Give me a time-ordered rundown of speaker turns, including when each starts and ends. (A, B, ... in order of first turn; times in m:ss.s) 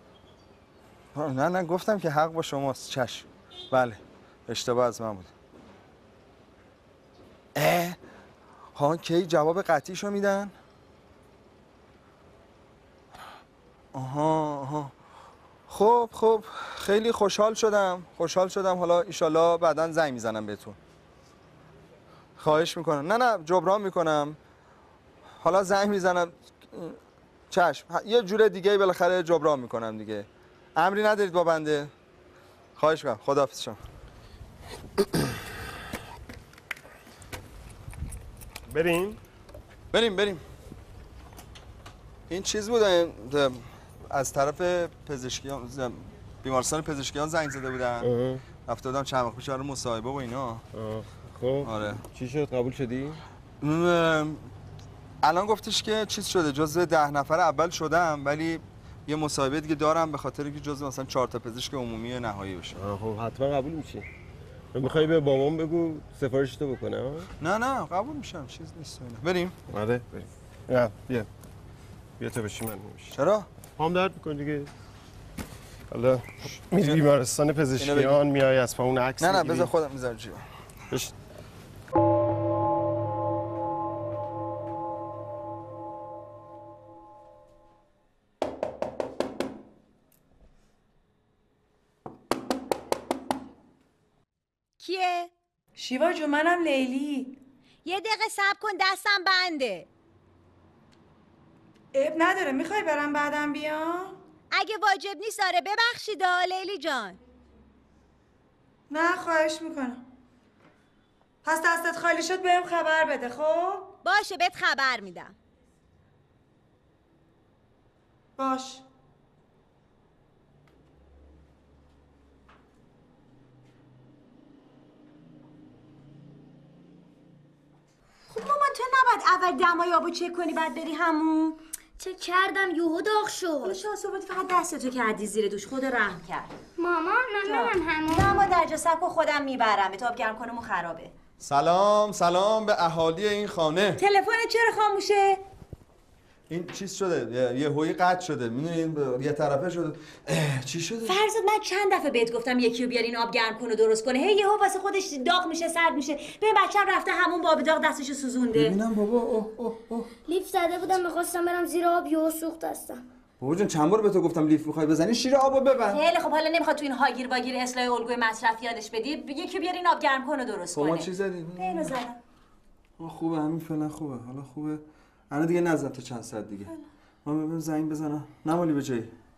0:01.1-0:05.3 A
0:07.5-0:08.0 A
0:08.7-0:10.5 A
0:13.9-0:14.9 A
0:15.7-0:20.8 A
0:22.4-0:24.4 A
0:25.4-0:27.0 A
0:27.5-0:31.9 A
0:32.8-0:33.8 A
0:38.7-0:39.2 B
0:39.9-0:40.4 A
0:42.3-0:48.1 A
0:48.0-0:48.4 B
0:48.6-0:50.6 A
0:50.7-0:53.2 B
0:51.6-0:52.0 A
0:53.6-0:54.5 A
0:55.2-1:02.8 A
1:02.8-1:04.1 B
1:04.7-1:07.3 B
1:07.4-1:09.6 A
1:09.7-1:11.3 B
1:12.2-1:13.2 B
1:13.1-1:13.5 A
1:13.8-1:14.7 B
1:15.9-1:19.7 B
1:17.8-1:18.2 A
1:19.2-1:20.4 A
1:34.8-1:35.3 C
1:35.8-1:37.4 D
1:37.8-1:39.9 C
1:41.9-1:44.1 D
1:44.5-1:47.2 C
1:48.9-1:50.0 D
1:51.4-1:53.9 D
1:54.0-1:55.3 C
1:58.4-1:58.8 D
2:08.3-2:11.6 C
2:12.0-2:13.8 E
2:13.6-2:16.5 C
2:16.8-2:18.4 E
2:17.4-2:21.1 C
2:21.4-2:24.0 A
2:24.0-2:25.4 C
2:26.5-2:31.2 A
2:31.0-2:38.8 C
2:38.5-2:40.1 A
2:40.2-2:43.0 E
2:43.4-2:46.0 A
2:45.9-2:52.2 C
2:50.7-2:51.9 A
2:53.0-2:56.7 A
2:57.2-2:59.1 A